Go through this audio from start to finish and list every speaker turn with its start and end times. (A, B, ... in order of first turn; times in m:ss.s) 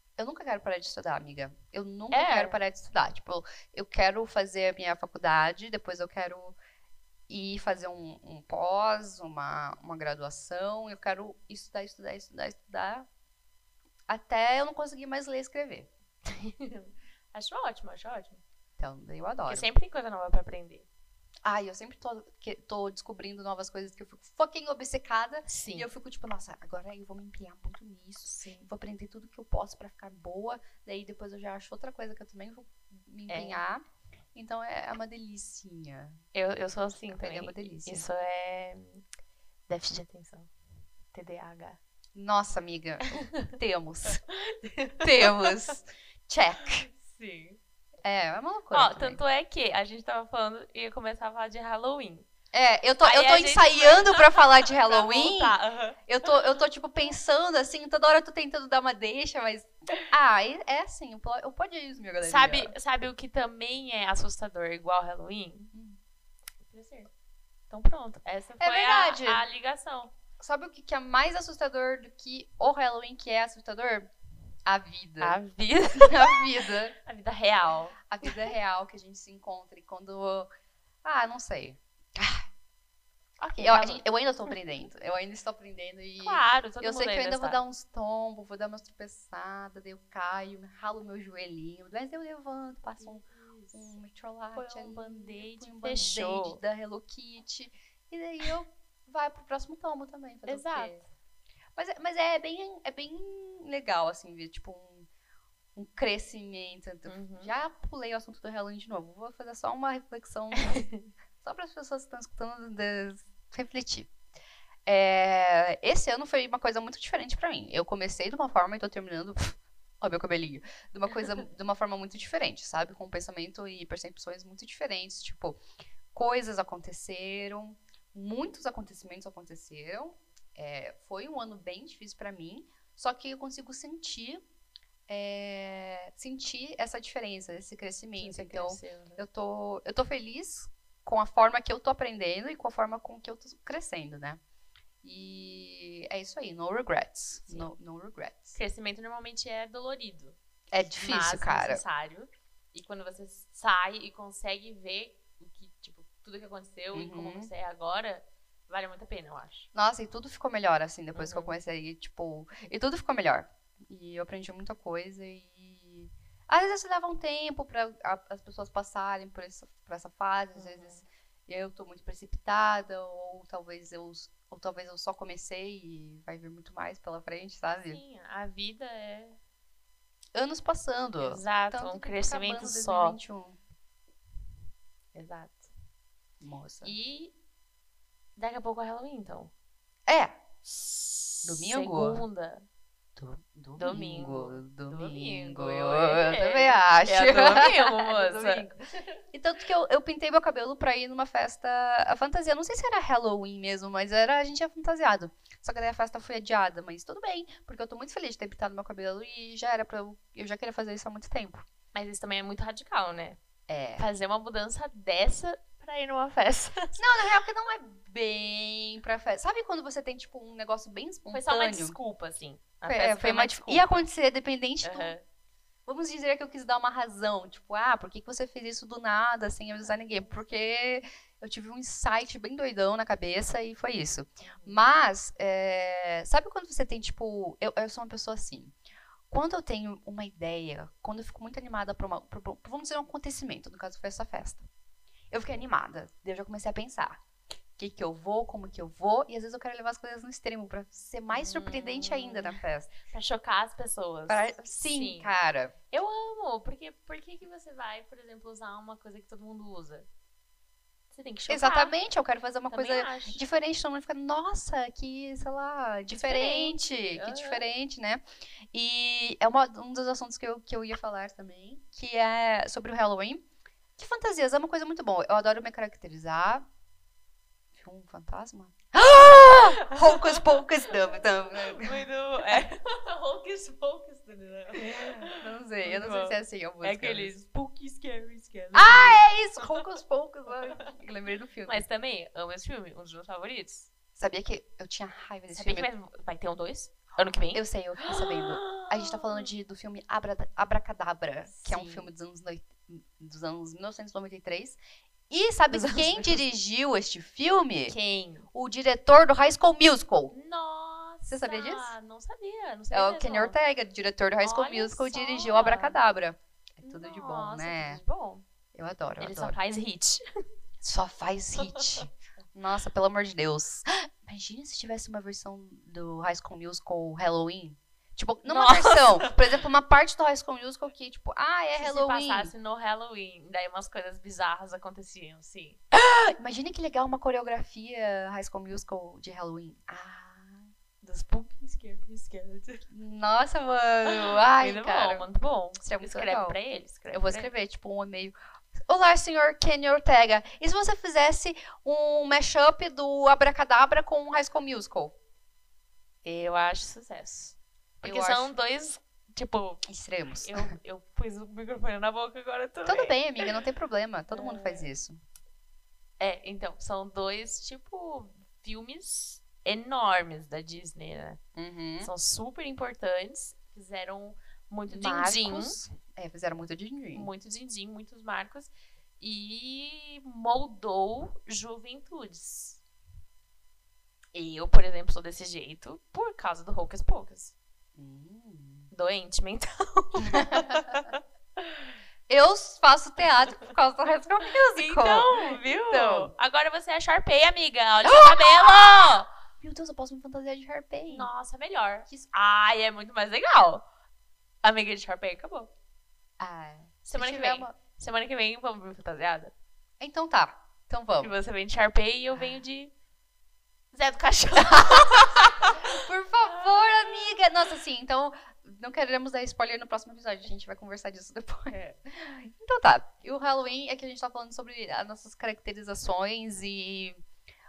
0:00.2-0:06.6 A
0:02.1-0:02.6 B
0:07.3-0:13.1 A
0:14.1-0:15.9 A
0:16.2-0:18.4 B
0:18.8-0:19.7 A
0:19.4-0:20.9 B
0:21.4-0:33.8 A
0:25.5-0:25.9 B
0:28.2-0:28.7 B
0:33.3-0:33.6 B
0:34.3-0:36.2 A
0:36.3-0:39.0 B
0:37.1-0:38.1 A
0:39.7-0:40.5 B
0:41.1-0:41.8 B
0:42.2-0:44.2 A
0:43.1-0:43.5 B
0:44.3-0:45.8 B
0:45.0-0:46.9 A
0:46.6-0:47.6 B
0:48.0-0:49.2 A
0:48.7-0:52.3 B
0:52.5-1:02.7 A
0:53.0-0:56.5 B
1:02.2-1:05.7 B
1:05.7-1:06.0 A
1:06.7-1:07.1 B
1:07.7-1:10.1 B
1:08.6-1:09.4 A
1:10.4-1:14.1 A
1:14.7-1:15.4 A
1:15.2-1:16.5 B
1:16.0-1:16.9 A
1:17.0-1:18.5 B
1:18.1-1:20.5 A
1:21.0-1:22.5 A
1:23.4-1:24.6 B
1:23.6-1:41.0 A
1:26.2-1:27.6 B
1:33.0-1:33.9 B
1:34.5-1:36.6 B
1:40.5-1:41.0 B
1:41.8-1:45.1 A
1:45.8-1:50.8 A
1:47.1-1:47.5 B
1:50.6-1:51.1 B
1:51.4-1:54.1 A
1:54.9-2:05.6 A
2:06.1-2:14.4 A
2:15.1-2:24.4 A
2:18.2-2:19.2 B
2:25.0-2:28.6 A
2:28.5-2:30.4 B
2:30.7-2:31.8 A
2:30.9-2:39.7 B
2:36.9-2:37.5 A
2:39.7-2:58.0 A
2:41.1-2:41.6 B
2:50.6-2:51.0 B
2:57.9-2:59.4 B
3:00.3-3:03.6 A
3:01.2-3:03.2 B
3:05.1-3:05.7 B
3:06.4-3:06.9 A
3:06.8-3:07.3 B
3:08.4-3:09.5 B
3:10.1-3:10.4 A
3:10.6-3:12.7 B
3:11.4-3:12.2 A
3:13.2-3:18.8 A
3:13.8-3:19.2 B
3:19.3-3:31.6 A
3:31.9-3:33.4 B
3:33.7-3:34.0 A
3:34.0-3:37.0 B
3:37.0-3:42.0 A
3:41.3-3:44.0 B
3:42.9-3:45.1 A
3:44.8-3:45.2 B
3:45.9-3:58.7 A
3:49.8-3:50.4 B
3:54.4-3:54.8 B
3:59.3-4:04.7 A
4:05.3-4:07.2 A
4:07.8-4:12.9 A
4:11.3-4:15.3 B
4:14.3-4:15.7 A
4:15.9-4:20.1 B
4:21.1-4:22.0 B
4:21.5-4:33.4 A
4:22.7-4:23.4 B
4:26.1-4:27.6 B
4:34.0-4:36.6 A
4:37.7-4:42.6 A
4:39.0-4:49.8 B
4:44.8-4:47.3 A
4:48.7-4:51.8 A
4:51.7-4:53.9 B
4:54.2-4:55.9 A
4:55.5-4:59.5 B
4:57.5-5:04.8 A
5:01.5-5:02.1 B
5:05.3-5:08.0 A
5:05.7-5:06.4 B
5:07.9-5:08.5 B
5:08.5-5:10.3 A
5:10.3-5:13.6 B
5:11.2-5:11.9 A
5:12.9-5:18.0 A
5:14.4-5:16.0 B
5:16.8-5:18.4 B
5:18.7-5:19.6 A
5:19.2-5:20.2 B
5:20.8-5:32.5 A
5:21.6-5:22.0 B
5:28.4-5:29.4 B
5:31.8-5:35.8 B
5:35.9-5:40.7 A
5:41.0-5:42.9 B
5:42.9-5:45.3 A
5:44.1-5:47.5 B
5:45.8-5:46.6 A
5:47.1-5:48.4 A
5:48.9-5:55.2 A
5:56.2-5:59.8 B
5:58.0-5:58.5 A
5:59.9-6:00.7 A
6:00.4-6:03.6 B
6:02.9-6:05.2 A
6:04.3-6:04.9 B
6:06.2-6:11.4 B
6:11.6-6:12.1 A
6:12.0-6:15.8 B
6:14.9-6:17.3 A
6:17.1-6:22.8 B
6:24.3-6:27.5 B
6:28.0-6:28.9 A
6:28.9-6:31.9 B
6:30.3-6:31.0 A
6:32.3-6:36.3 A
6:33.4-6:33.7 B
6:34.7-6:39.3 B
6:38.0-6:41.3 A
6:41.1-6:43.8 B
6:44.6-6:45.7 B
6:46.4-6:47.7 A
6:47.0-6:49.5 B
6:50.0-6:51.3 A
6:51.2-6:52.9 B
6:53.9-6:57.4 B
6:54.6-7:07.2 A